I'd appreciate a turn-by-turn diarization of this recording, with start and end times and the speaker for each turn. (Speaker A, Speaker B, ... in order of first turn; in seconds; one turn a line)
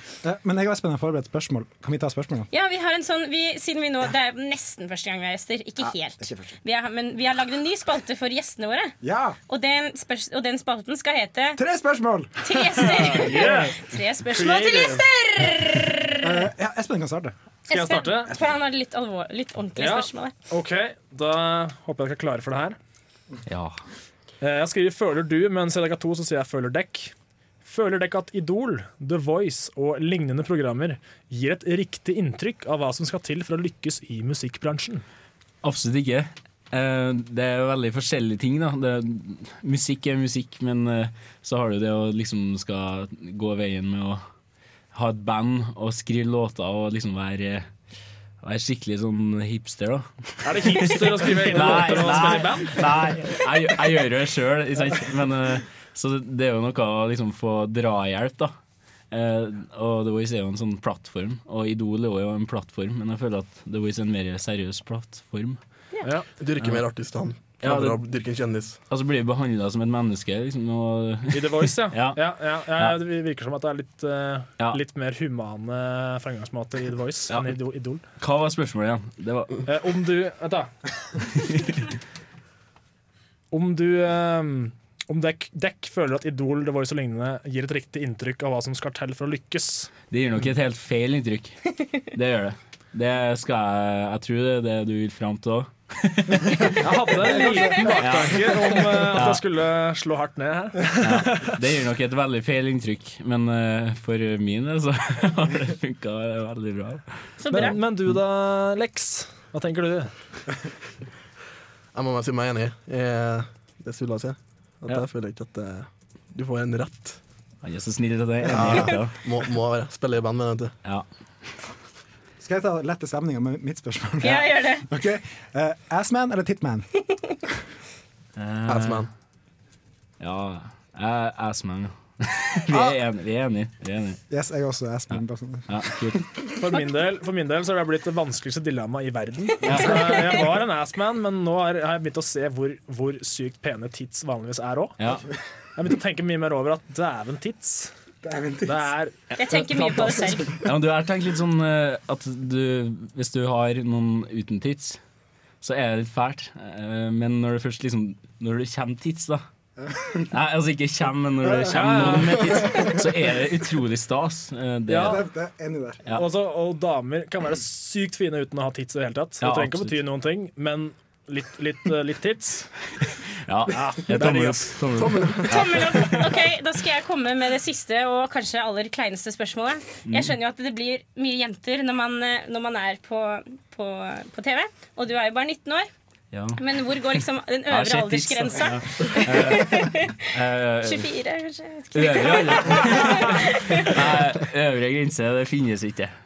Speaker A: 0.2-2.5
Speaker B: 2.5-8.9
Speaker A: 5.8-6.5
Speaker A: 9.0-9.4
Speaker B: 9.5-11.6
Speaker A: 11.6-12.6
Speaker B: 12.4-16.4
Speaker C: 12.8-15.1
Speaker A: 16.2-17.3
Speaker B: 17.7-20.3
Speaker C: 17.7-18.3
Speaker C: 19.8-22.8
Speaker D: 23.5-23.8
Speaker C: 24.4-27.1
Speaker C: 27.6-35.0
Speaker D: 35.6-44.2
Speaker D: 44.9-47.7
Speaker D: 48.4-58.5
Speaker C: 50.4-53.0
Speaker D: 59.1-65.6
Speaker C: 66.0-66.3
Speaker E: 66.3-68.8
Speaker D: 67.6-68.0
Speaker D: 68.9-72.2
Speaker C: 71.3-78.0
Speaker D: 77.3-77.5
Speaker D: 78.2-79.6
Speaker C: 79.7-80.7
Speaker C: 83.5-89.9
Speaker D: 90.1-96.8
Speaker C: 96.7-101.6
Speaker D: 97.7-99.4
Speaker D: 101.0-107.7
Speaker B: 107.4-107.7
Speaker C: 107.5-110.1
Speaker E: 111.9-117.2
Speaker D: 117.6-119.1
Speaker E: 118.5-120.7
Speaker A: 122.4-126.9
Speaker B: 124.2-124.8
Speaker D: 128.4-129.1
Speaker E: 128.7-129.1
Speaker D: 130.2-134.2
Speaker A: 134.3-136.2
Speaker D: 135.7-136.3
Speaker C: 136.6-144.9
Speaker D: 139.6-140.3
Speaker D: 145.0-145.2
Speaker C: 145.8-147.9
Speaker A: 148.2-148.9
Speaker C: 148.6-149.2
Speaker B: 149.3-150.5
Speaker A: 149.7-150.5
Speaker D: 150.6-155.0
Speaker D: 155.6-159.4
Speaker A: 159.8-160.3
Speaker D: 160.3-165.2
Speaker A: 161.4-162.2
Speaker C: 161.7-162.4
Speaker C: 164.9-165.2
Speaker A: 164.9-166.0
Speaker C: 166.1-172.7
Speaker D: 169.4-170.0
Speaker D: 173.4-176.3
Speaker C: 174.1-175.1
Speaker B: 175.5-185.9
Speaker D: 180.1-180.3
Speaker D: 186.3-187.0
Speaker B: 186.6-190.2
Speaker D: 187.7-191.1
Speaker B: 190.8-194.0
Speaker D: 191.9-196.1